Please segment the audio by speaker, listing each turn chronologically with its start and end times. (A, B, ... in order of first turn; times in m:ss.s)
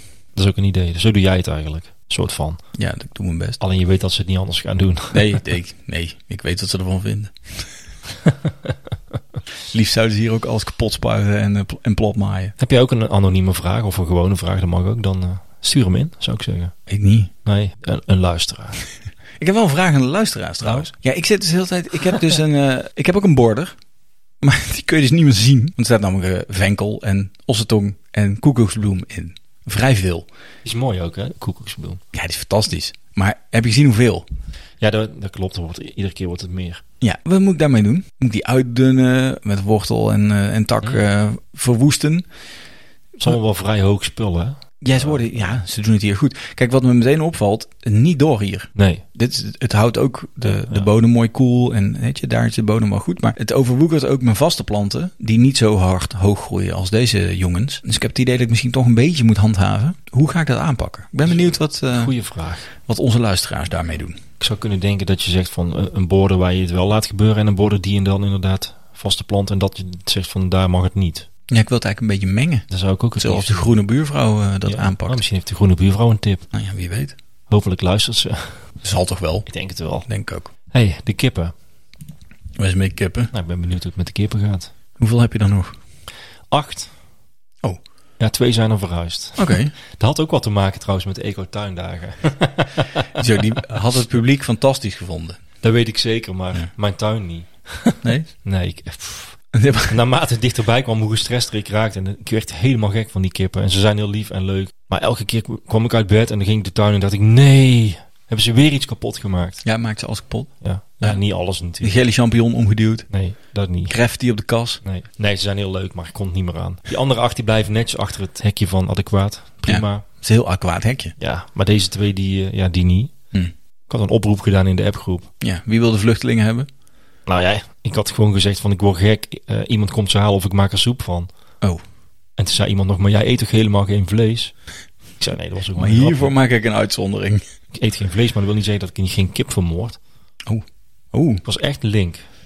0:00.4-0:02.7 A
0:02.8-0:03.6 B
0:03.6-0:05.4 A
0:05.1-0:07.7 B
0:09.7-0:12.6 B
0:12.6-0:16.7 A
0:16.9-0:17.3 B
0:17.4-0:18.8 A
0:19.4-0:23.7 B
0:20.6-0:20.9 A
0:24.4-0:30.3 B
0:30.6-0:32.0 A
0:32.1-0:34.2 B
0:34.8-0:36.8 A
0:37.0-0:42.3 B
0:43.2-0:45.4 A
0:44.8-1:02.1 B
0:48.8-0:49.0 A
0:50.5-0:50.9 A
1:01.3-1:02.7 A
1:02.8-1:04.2 B
1:04.4-1:11.3 A
1:11.5-1:12.7 B
1:12.7-1:13.7 A
1:13.2-1:15.2 B
1:14.7-1:16.5 A
1:16.5-1:17.2 B
1:17.5-1:18.7 A
1:18.8-1:19.5 B
1:19.5-1:20.1 A
1:20.1-1:20.5 B
1:20.7-1:21.5 A
1:22.6-1:23.3 B
1:23.3-1:24.7 A
1:25.0-1:25.8 B
1:26.5-1:26.9 A
1:28.2-1:33.1 A
1:29.4-1:29.7 B
1:33.2-1:35.4 B
1:35.6-1:49.6 A
1:38.0-1:38.3 B
1:39.5-1:40.0 B
1:49.6-1:51.2 B
1:50.6-1:52.0 A
1:51.8-1:53.1 B
1:53.1-1:54.0 A
1:53.9-1:54.8 B
1:54.8-2:00.0 A
1:59.7-2:01.1 B
2:01.2-2:03.1 A
2:03.9-2:05.3 A
2:05.4-2:06.7 B
2:07.3-2:11.3 A
2:12.4-2:16.3 A
2:15.8-2:17.4 B
2:17.7-2:20.0 A
2:20.5-2:21.4 B
2:21.4-2:22.3 A